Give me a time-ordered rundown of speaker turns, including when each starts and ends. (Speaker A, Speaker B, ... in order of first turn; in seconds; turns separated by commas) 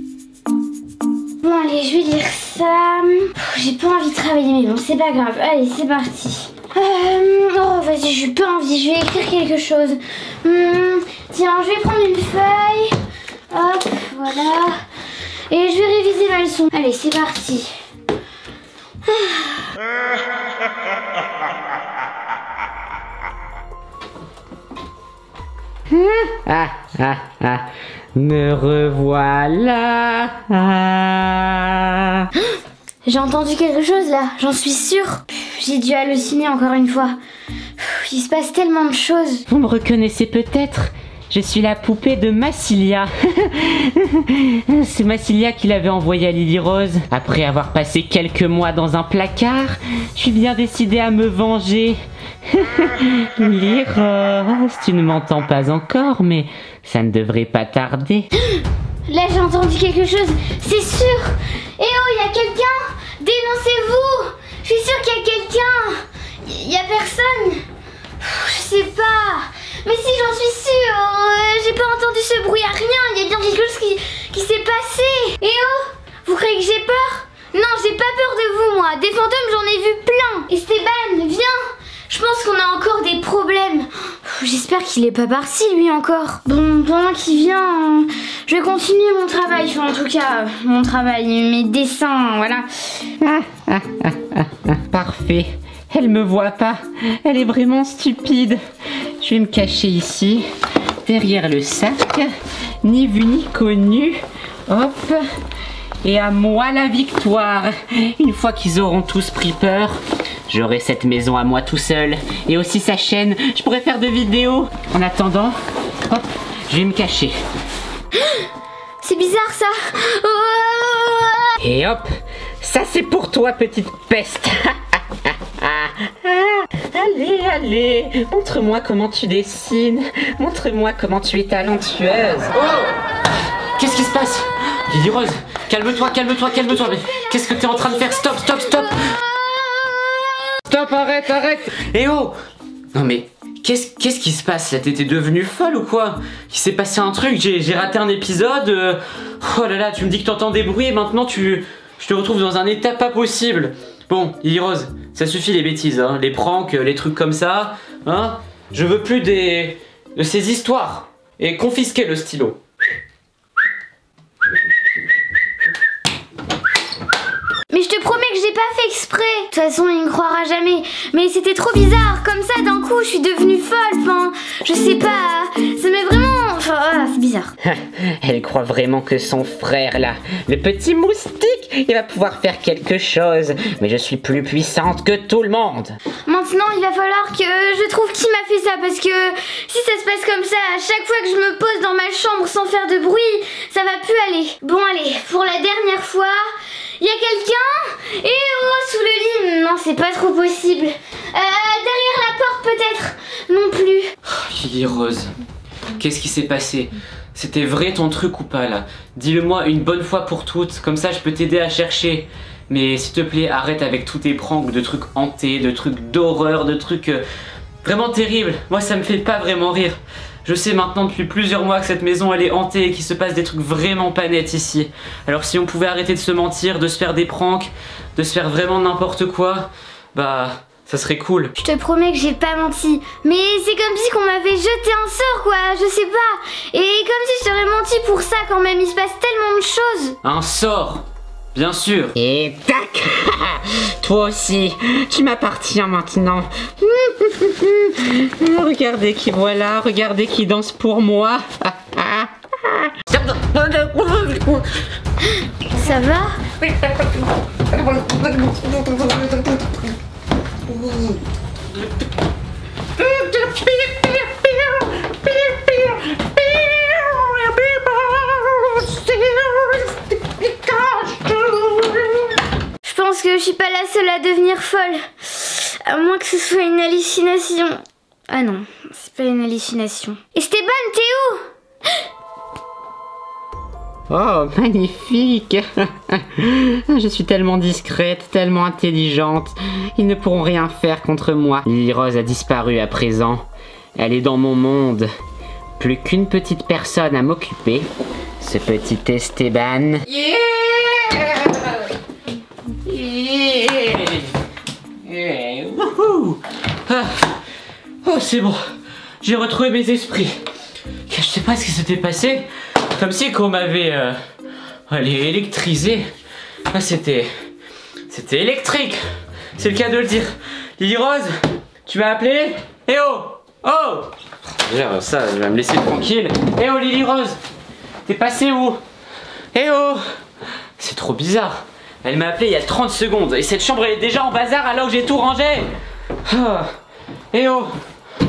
Speaker A: 1.4-12.9, Speaker A: 13.5-14.8, Speaker A: 15.5-17.7, Speaker A: 19.0-19.7, Speaker B: 25.9-32.3, Speaker A: 33.0-37.1, Speaker A: 37.8-39.5, Speaker B: 39.5-58.3, Speaker A: 59.1-67.6, Speaker A: 68.2-92.7, Speaker B: 93.2-98.6, Speaker B: 99.2-100.5, Speaker B: 101.0-105.2, Speaker B: 106.0-117.3, Speaker A: 119.0-121.5, Speaker B: 121.6-122.1, Speaker B: 122.6-132.5, Speaker C: 132.6-132.9, Speaker C: 133.8-139.0, Speaker A: 137.0-139.9, Speaker C: 140.7-142.3, Speaker C: 142.9-162.6, Speaker A: 167.7-177.5, Speaker B: 177.6-186.0, Speaker A: 186.2-196.4, Speaker A: 197.0-204.1, Speaker C: 204.2-205.3, Speaker C: 206.0-217.2, Speaker C: 217.8-231.5, Speaker A: 231.6-240.2, Speaker C: 240.2-242.1, Speaker B: 242.2-254.6, Speaker A: 255.7-256.4, Speaker B: 258.1-258.7, Speaker B: 263.3-264.3, Speaker B: 265.3-271.9, Speaker A: 272.8-277.8, Speaker A: 278.3-281.4, Speaker B: 284.1-293.4, Speaker B: 293.9-295.1, Speaker B: 295.8-297.9, Speaker B: 298.4-301.1, Speaker B: 302.9-304.2, Speaker B: 305.1-305.6, Speaker C: 305.7-307.3, Speaker C: 308.0-308.6, Speaker C: 309.2-310.4, Speaker C: 311.1-314.2, Speaker C: 314.9-316.1, Speaker C: 316.7-317.3, Speaker C: 318.1-319.0, Speaker C: 319.6-321.3, Speaker C: 321.9-324.1, Speaker C: 324.6-327.4, Speaker C: 328.1-328.8, Speaker C: 329.5-330.0, Speaker C: 330.8-335.7, Speaker C: 336.2-336.7, Speaker C: 337.3-337.7